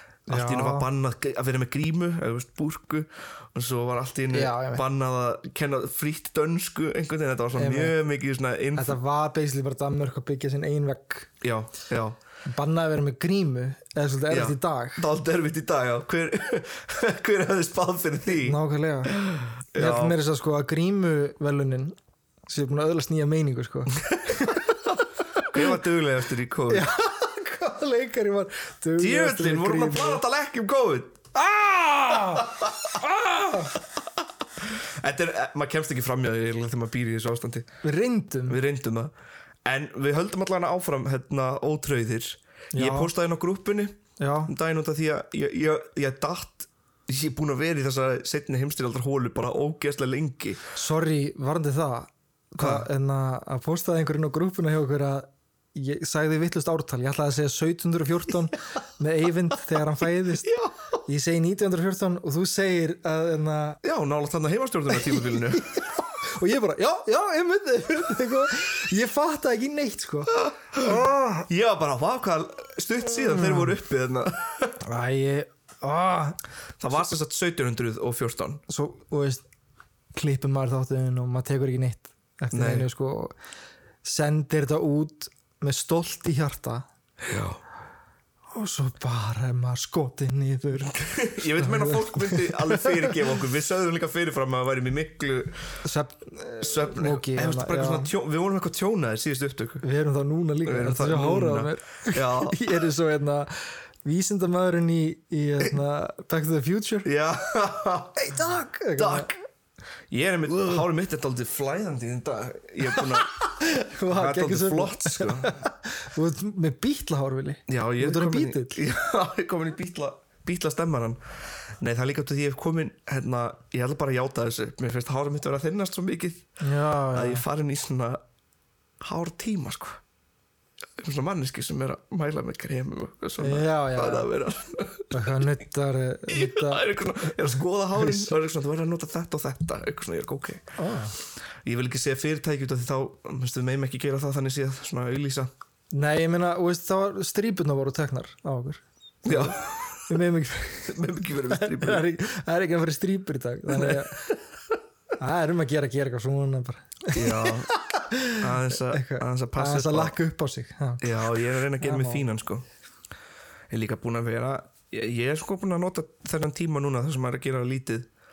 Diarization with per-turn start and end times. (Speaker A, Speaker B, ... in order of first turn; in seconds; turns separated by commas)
Speaker A: 0.3-9.0, Speaker B: 0.3-0.9, Speaker B: 4.3-4.8, Speaker B: 7.5-8.0, Speaker B: 8.8-11.3, Speaker A: 11.4-12.2, Speaker B: 12.5-15.0, Speaker A: 14.3-20.2, Speaker B: 18.4-19.2, Speaker B: 19.8-22.0, Speaker B: 22.5-24.8, Speaker B: 25.4-25.6, Speaker A: 25.5-26.9, Speaker B: 26.7-30.2, Speaker A: 29.0-31.2, Speaker B: 31.3-33.8, Speaker A: 32.4-32.7, Speaker A: 34.6-37.7, Speaker B: 37.8-38.6, Speaker A: 38.5-39.1, Speaker A: 39.6-50.6, Speaker B: 42.7-43.1, Speaker B: 44.2-44.5, Speaker B: 50.7-63.8, Speaker A: 52.6-52.9, Speaker A: 60.5-60.9, Speaker A: 63.8-65.7, Speaker B: 64.9-71.5, Speaker A: 70.4-74.8, Speaker B: 73.3-73.7, Speaker B: 74.8-76.4, Speaker A: 76.8-78.6, Speaker B: 78.7-79.4, Speaker B: 80.1-83.4, Speaker A: 82.5-82.9, Speaker B: 84.0-86.9, Speaker A: 87.2-87.6, Speaker B: 88.5-93.2, Speaker A: 91.0-95.8, Speaker B: 95.8-98.1, Speaker A: 96.6-99.8, Speaker B: 99.8-107.1, Speaker A: 100.7-102.6, Speaker A: 107.0-108.4, Speaker B: 108.2-109.4, Speaker A: 109.0-109.3, Speaker A: 110.1-113.3, Speaker B: 110.5-110.8, Speaker B: 113.0-118.8, Speaker A: 114.1-115.6, Speaker A: 117.7-121.2, Speaker A: 121.8-126.5, Speaker B: 126.6-127.5, Speaker A: 127.1-128.2, Speaker A: 129.0-130.0, Speaker A: 131.0-135.5, Speaker B: 133.4-134.3, Speaker B: 135.1-137.4, Speaker A: 136.3-140.8, Speaker B: 138.0-138.3, Speaker B: 140.8-141.2, Speaker A: 141.7-145.5, Speaker B: 145.9-154.4, Speaker A: 149.2-150.2, Speaker A: 150.9-152.1, Speaker A: 153.7-154.4, Speaker B: 155.2-162.3, Speaker A: 157.1-157.7, Speaker A: 158.4-160.2, Speaker A: 161.0-162.7, Speaker A: 163.7-168.1